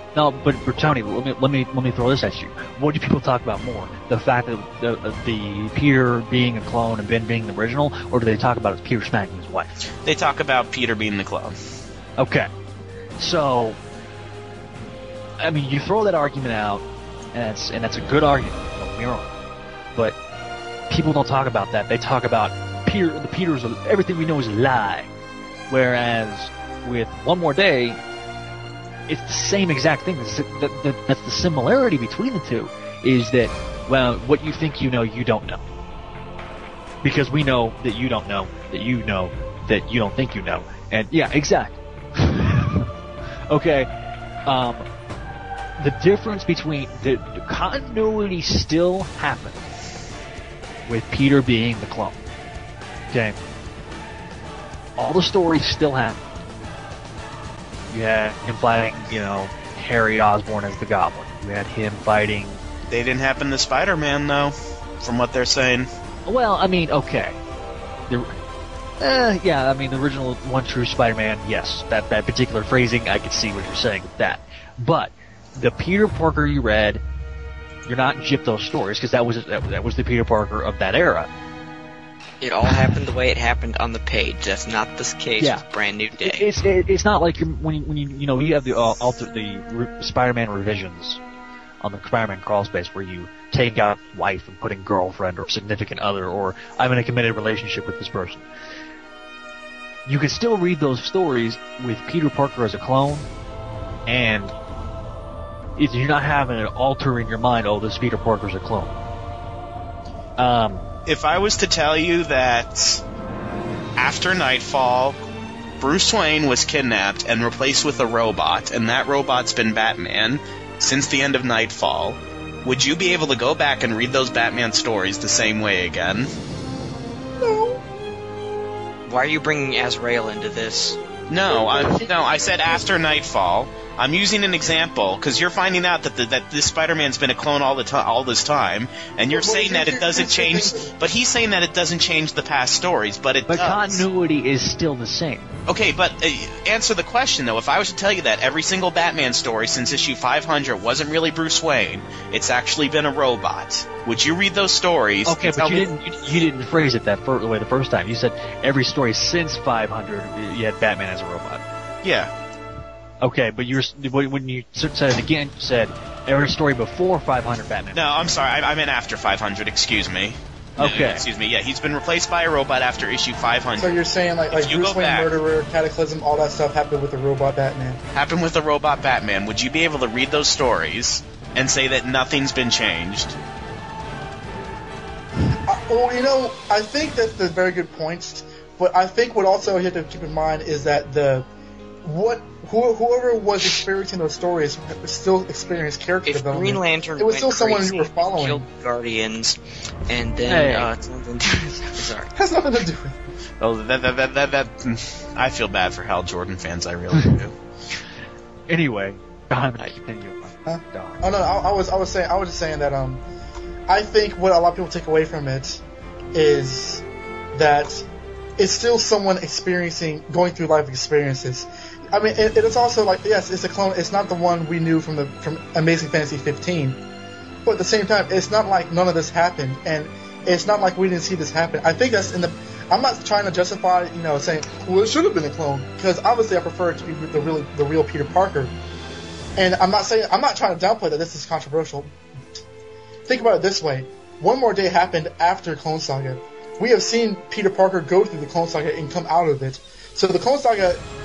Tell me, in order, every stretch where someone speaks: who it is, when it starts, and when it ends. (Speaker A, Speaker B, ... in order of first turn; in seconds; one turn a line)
Speaker A: 0.1-9.7
Speaker B: 10.0-11.6
Speaker A: 12.2-12.5
Speaker A: 13.2-13.8
Speaker A: 15.4-19.3
Speaker A: 20.9-25.1
Speaker A: 25.7-28.0
Speaker A: 29.1-35.6
Speaker A: 37.0-42.9
Speaker A: 43.5-43.9
Speaker A: 44.5-44.9
Speaker A: 45.8-49.7
Speaker A: 50.9-52.2
Speaker A: 53.1-53.4
Speaker A: 55.0-56.2
Speaker A: 57.9-62.6
Speaker B: 62.9-65.9
Speaker A: 66.2-67.3
Speaker A: 68.1-68.3
Speaker A: 69.0-77.0
Speaker A: 77.8-81.3
Speaker C: 82.4-86.5
Speaker A: 85.4-85.6
Speaker A: 86.2-91.2
Speaker A: 91.8-98.4
Speaker A: 100.0-103.3
Speaker A: 104.0-104.5
Speaker A: 105.8-108.9
Speaker A: 110.4-110.8
Speaker B: 111.0-113.0
Speaker B: 114.0-115.2
Speaker B: 115.8-126.3
Speaker D: 127.4-127.8
Speaker C: 129.1-131.0
Speaker B: 131.3-144.0
Speaker D: 131.5-132.8
Speaker D: 139.3-140.9
Speaker A: 143.5-145.5
Speaker B: 145.7-155.9
Speaker A: 155.2-161.6
Speaker B: 162.0-162.3
Speaker A: 163.2-168.0
Speaker B: 167.9-174.0
Speaker A: 170.8-171.2
Speaker D: 173.8-178.0
Speaker B: 174.5-175.3
Speaker B: 178.1-183.3
Speaker D: 185.7-191.5
Speaker D: 192.0-198.7
Speaker C: 196.2-202.3
Speaker A: 200.4-200.9
Speaker D: 202.3-203.2
Speaker B: 203.6-207.5
Speaker A: 208.7-211.2
Speaker D: 210.7-213.2
Speaker D: 213.9-215.8
Speaker D: 216.3-218.1
Speaker D: 218.6-227.0
Speaker D: 227.6-238.7
Speaker D: 239.6-242.1
Speaker D: 243.3-251.0